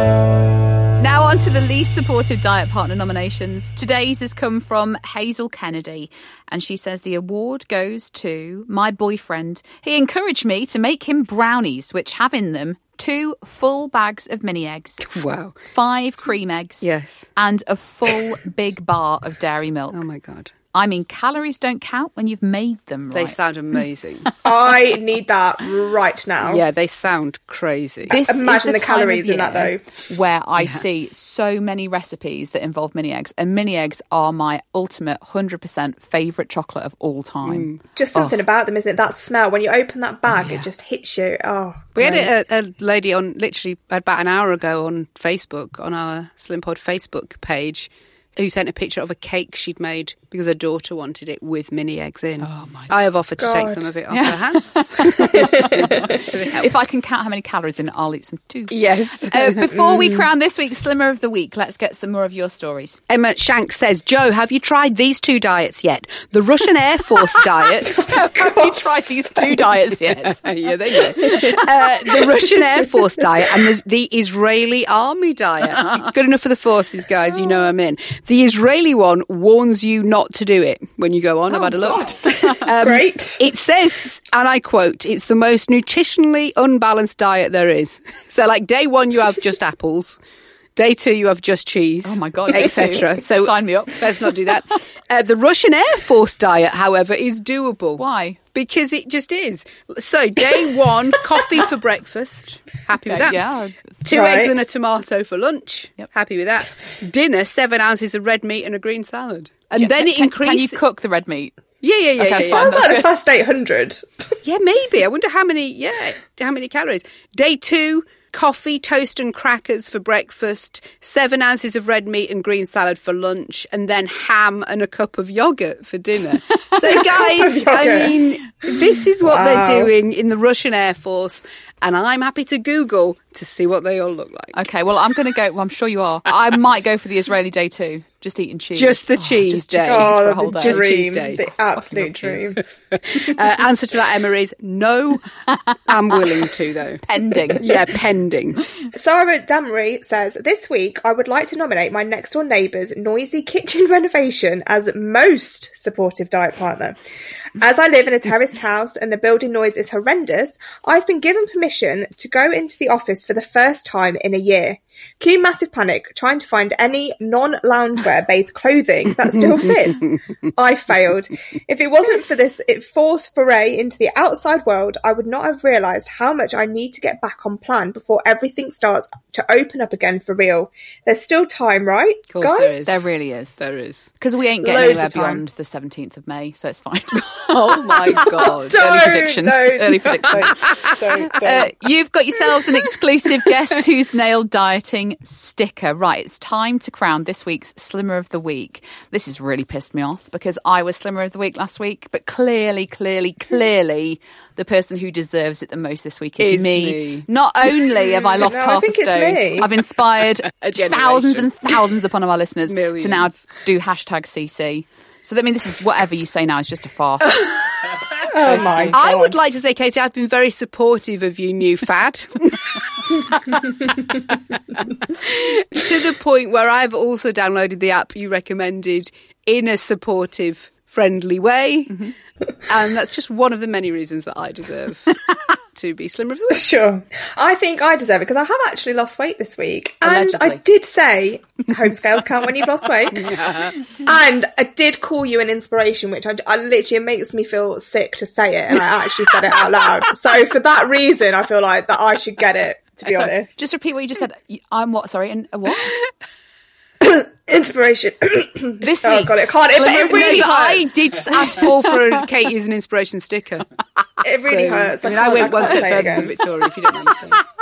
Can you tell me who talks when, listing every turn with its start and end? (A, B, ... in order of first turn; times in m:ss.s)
0:01.0-0:15.0 A
0:15.0-0:15.6 B
0:15.7-0:20.0 A
0:16.8-0:17.3 B
0:19.9-0:20.5 B
0:20.7-0:23.4 A
0:23.1-0:24.3 B
0:24.4-0:26.6 C
0:26.4-0:28.1 B
0:28.1-0:29.8 C
0:28.1-0:38.4 A
0:37.4-0:37.8 B
0:38.0-0:42.3 C
0:40.4-0:40.6 A
0:42.0-0:56.7 B
0:52.4-0:52.9 A
0:53.4-0:53.9 C
0:54.1-0:56.1 A
0:55.3-0:56.2 C
0:56.6-1:03.0 A
0:58.7-0:59.7 B
1:03.1-1:08.1 B
1:07.9-1:09.0 C
1:07.9-1:10.4 A
1:10.2-1:30.2 B
1:11.2-1:11.6 C
1:22.3-1:23.4 C
1:30.8-1:38.0 B
1:32.0-1:34.3 A
1:38.0-1:38.4 A
1:38.5-1:43.4 B
1:43.1-1:43.8 A
1:44.0-1:50.8 B
1:44.1-1:44.5 C
1:49.8-1:51.6 A
1:51.8-1:53.0 B
1:52.2-1:53.1 A
1:52.4-1:54.3 C
1:54.4-2:14.6 B
2:07.0-2:09.9 C
2:14.6-2:20.8 A
2:18.8-2:25.2 B
2:19.8-2:22.6 C
2:25.9-2:27.0 B
2:27.1-2:27.6 A
2:27.6-2:28.7 B
2:28.9-2:37.0 C
2:37.6-3:03.0 C
2:49.4-2:50.1 B
3:02.3-3:03.1 B
3:02.8-3:03.6 A
3:03.6-3:04.1 B
3:04.2-3:37.5 A
3:04.6-3:05.4 C
3:04.8-3:05.2 B
3:07.4-3:09.2 B
3:08.2-3:11.7 C
3:26.4-3:27.3 B
3:28.0-3:29.7 C
3:30.5-3:31.7 B
3:32.7-3:33.4 B
3:37.2-3:38.0 B
3:38.3-3:39.4 C
3:38.5-3:42.8 B
3:45.2-3:52.0 B
3:52.7-3:55.2 B
3:55.7-3:56.7 B
3:56.5-4:03.4 C
4:00.0-4:00.6 A
4:03.2-4:03.9 B
4:04.0-4:13.6 C
4:13.0-4:16.0 A
4:17.0-4:20.9 C
4:18.8-4:20.6 A
4:19.9-4:23.7 B
4:21.2-4:21.9 A
4:24.2-4:26.3 C
4:24.4-4:27.4 B